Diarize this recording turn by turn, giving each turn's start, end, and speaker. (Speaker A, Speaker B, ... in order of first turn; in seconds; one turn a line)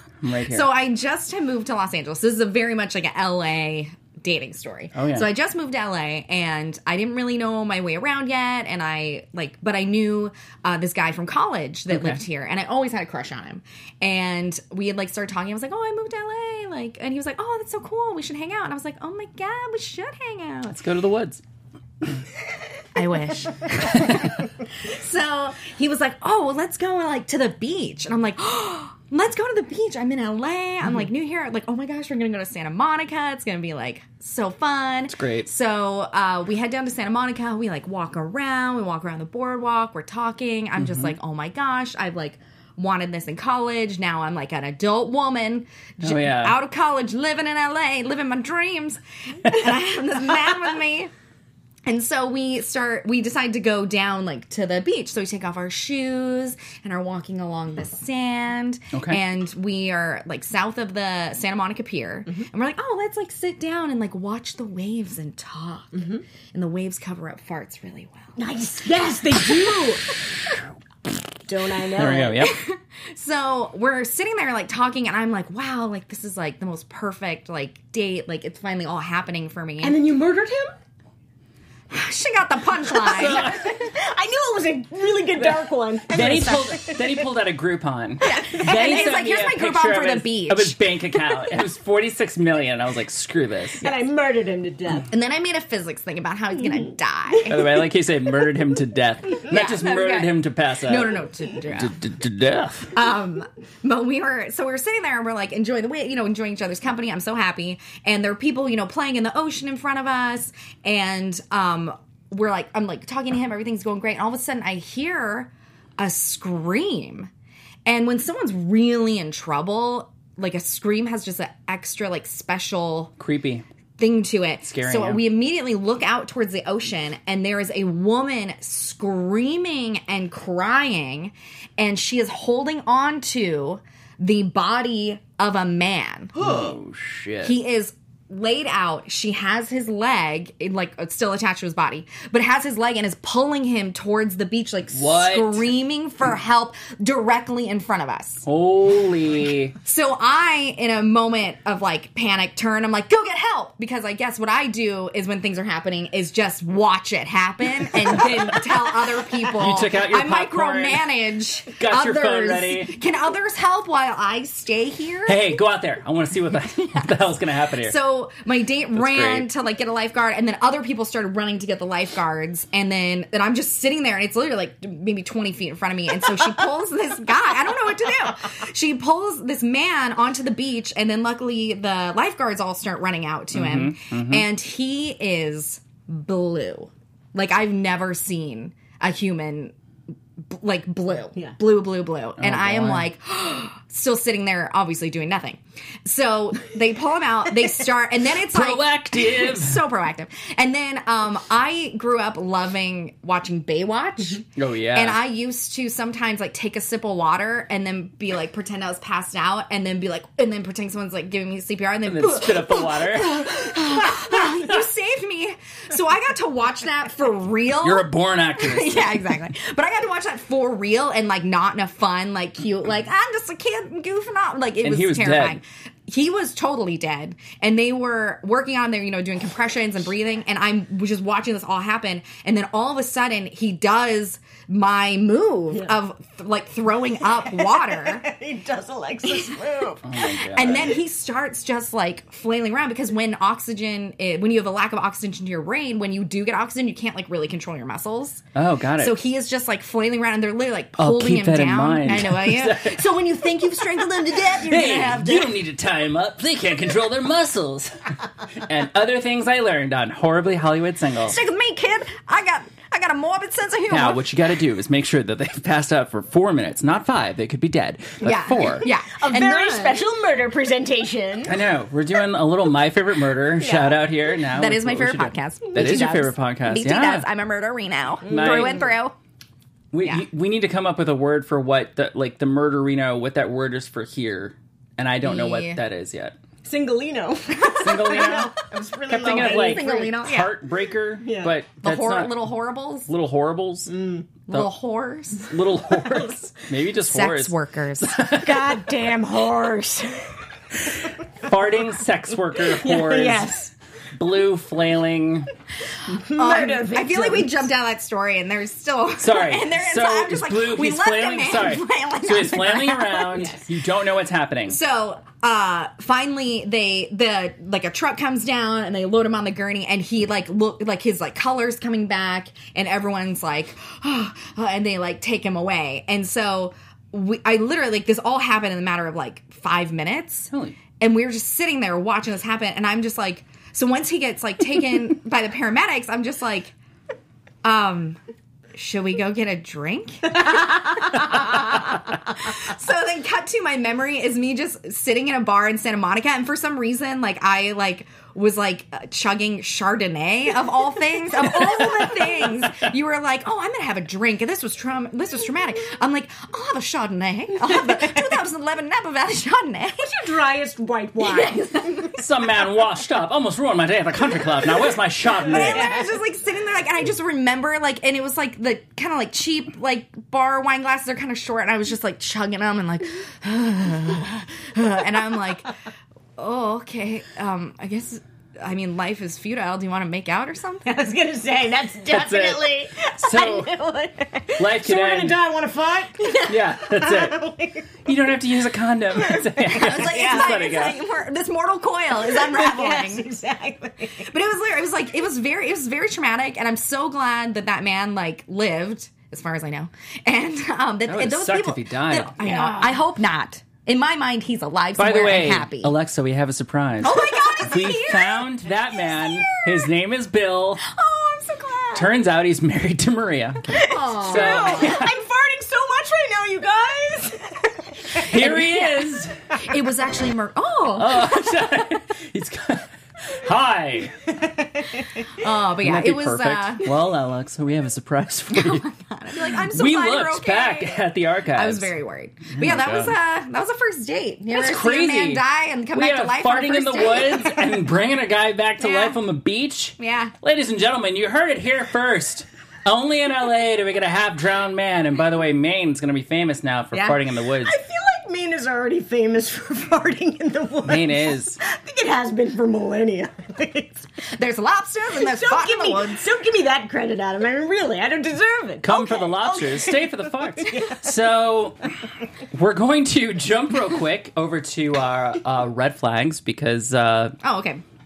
Speaker A: 0.2-0.7
Speaker B: 0.5-20.8
Speaker A: 4.9-5.3
Speaker A: 11.9-12.2
Speaker A: 20.7-21.4
Speaker B: 22.9-51.1
Speaker A: 35.1-35.5
Speaker A: 40.8-41.1
Speaker A: 46.0-46.5
Speaker B: 51.9-68.3
Speaker A: 58.9-59.2
Speaker C: 65.9-66.2
Speaker C: 68.4-70.1
Speaker C: 71.5-72.5
Speaker A: 72.0-72.5
Speaker B: 72.4-80.0
Speaker C: 79.8-80.7
Speaker B: 81.9-83.6
Speaker A: 82.9-83.7
Speaker C: 83.2-87.2
Speaker A: 86.1-93.8
Speaker B: 88.2-90.8
Speaker C: 93.8-95.1
Speaker B: 95.1-97.5
Speaker A: 97.5-101.2
Speaker B: 99.5-101.9
Speaker A: 101.7-102.9
Speaker B: 102.9-117.3
Speaker B: 117.8-123.1
Speaker A: 123.2-123.6
Speaker B: 124.0-136.4
Speaker A: 124.6-125.2
Speaker A: 136.4-137.6
Speaker B: 137.4-148.4
Speaker A: 144.9-145.7
Speaker A: 148.4-149.7
Speaker B: 149.8-165.5
Speaker A: 159.5-161.1
Speaker A: 161.7-162.9
Speaker A: 165.2-167.9
Speaker B: 167.8-189.7
Speaker A: 168.9-169.5
Speaker A: 183.5-184.4
Speaker B: 190.5-238.2
Speaker A: 192.4-193.1
Speaker A: 198.5-199.8
Speaker A: 204.6-205.2
Speaker A: 212.0-213.6
Speaker A: 217.8-219.2
Speaker A: 224.8-225.6
Speaker C: 237.3-240.0
Speaker A: 240.0-240.9
Speaker B: 240.1-248.4
Speaker A: 248.5-249.2
Speaker B: 249.0-252.9
Speaker A: 251.0-253.0
Speaker C: 252.7-255.6
Speaker A: 254.6-261.4
Speaker B: 261.2-264.2
Speaker A: 263.9-268.9
Speaker B: 268.2-270.0
Speaker C: 268.8-271.6
Speaker A: 271.4-277.2
Speaker C: 273.6-274.1
Speaker B: 274.5-279.1
Speaker C: 275.7-276.3
Speaker C: 278.2-278.9
Speaker A: 278.3-278.8
Speaker A: 279.9-286.4
Speaker B: 285.2-285.8
Speaker C: 286.6-290.2
Speaker A: 287.8-288.5
Speaker B: 288.0-288.3
Speaker A: 289.1-292.4
Speaker B: 289.2-290.5
Speaker C: 291.2-291.5
Speaker B: 291.8-293.1
Speaker A: 293.1-293.9
Speaker C: 293.9-294.3
Speaker B: 294.5-295.5
Speaker A: 295.4-298.8
Speaker B: 297.0-298.2
Speaker C: 298.4-300.3
Speaker A: 301.4-303.5
Speaker C: 302.7-303.7
Speaker A: 304.1-305.5
Speaker C: 306.1-307.7
Speaker B: 306.3-313.5
Speaker A: 309.2-314.8
Speaker B: 314.7-336.7
Speaker A: 330.5-330.8
Speaker B: 337.6-338.2
Speaker B: 338.7-360.1
Speaker A: 351.7-352.1
Speaker C: 357.6-358.4
Speaker C: 360.0-362.2
Speaker B: 361.2-362.2
Speaker A: 362.1-365.9
Speaker C: 365.4-366.2
Speaker B: 365.5-375.7
Speaker B: 376.4-380.9
Speaker C: 380.9-388.0
Speaker A: 382.1-383.7
Speaker A: 384.6-385.4
Speaker A: 386.5-387.4
Speaker A: 388.0-391.0
Speaker C: 389.1-390.9
Speaker B: 389.6-393.3
Speaker C: 392.2-394.3
Speaker B: 394.1-405.9
Speaker A: 401.1-402.3
Speaker C: 402.4-403.0
Speaker A: 405.0-410.8
Speaker B: 407.0-409.8
Speaker C: 407.0-407.9
Speaker B: 410.9-412.1
Speaker A: 411.9-415.1
Speaker B: 413.8-415.0
Speaker C: 414.0-418.6
Speaker A: 418.1-419.4
Speaker B: 418.3-418.9
Speaker B: 419.6-421.7
Speaker A: 420.9-424.1
Speaker C: 424.4-425.0
Speaker B: 425.4-426.9
Speaker A: 425.8-428.8
Speaker B: 428.5-437.7
Speaker A: 429.5-431.9
Speaker A: 432.5-433.1
Speaker A: 434.5-447.8
Speaker B: 438.8-439.1
Speaker B: 440.0-440.3
Speaker B: 446.9-447.2
Speaker C: 447.6-454.1
Speaker A: 450.8-451.6
Speaker B: 454.4-456.2
Speaker C: 455.1-461.0
Speaker A: 458.8-461.8
Speaker A: 462.5-467.4
Speaker B: 467.4-467.8